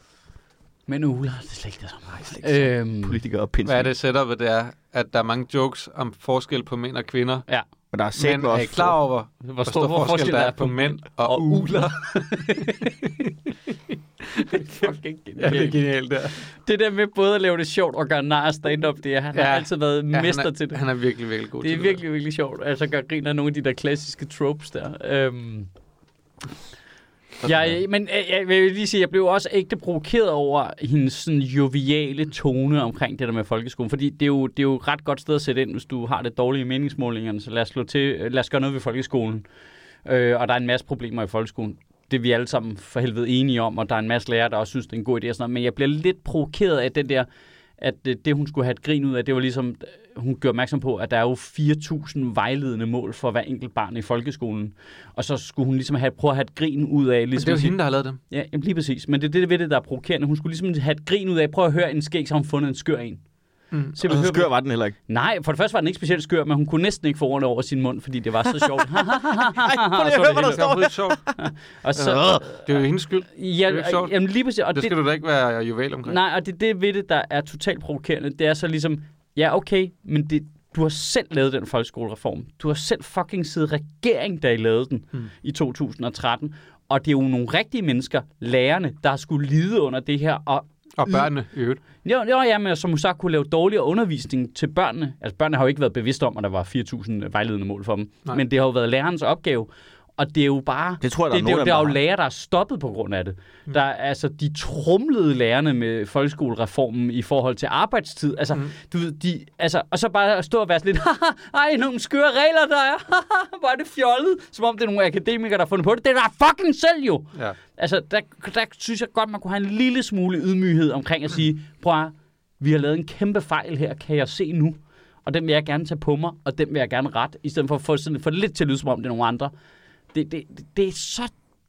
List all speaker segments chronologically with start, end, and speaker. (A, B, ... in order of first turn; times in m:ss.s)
0:00.9-0:03.2 A
0:02.3-0:03.9 B
0:03.6-0:07.4 C
0:07.9-0:09.0 B
0:08.2-0:13.1 C
0:09.4-0:13.1 A
0:14.3-0:14.8 C
0:14.4-0:15.8 A
0:15.4-0:16.4 C
0:16.4-0:20.8 A
0:19.3-0:22.0 C
0:21.6-0:25.7 A
0:27.4-0:27.8 B
0:27.4-0:39.4 A
0:40.0-0:47.3 A
0:47.8-0:57.8 A
0:57.4-0:58.2 C
0:58.3-1:03.2 A
1:03.9-1:04.5 A
1:04.0-1:04.9 B
1:05.0-1:10.7 A
1:08.6-1:11.4 B
1:10.4-1:11.2 C
1:11.4-1:12.7 A
1:12.0-1:14.1 C
1:12.0-1:12.4 B
1:13.4-1:15.0 A
1:14.7-1:16.2 C
1:16.0-1:31.3 A
1:31.0-1:31.8 C
1:31.9-2:09.5 A
1:41.0-1:42.0 B
2:10.1-2:11.3 A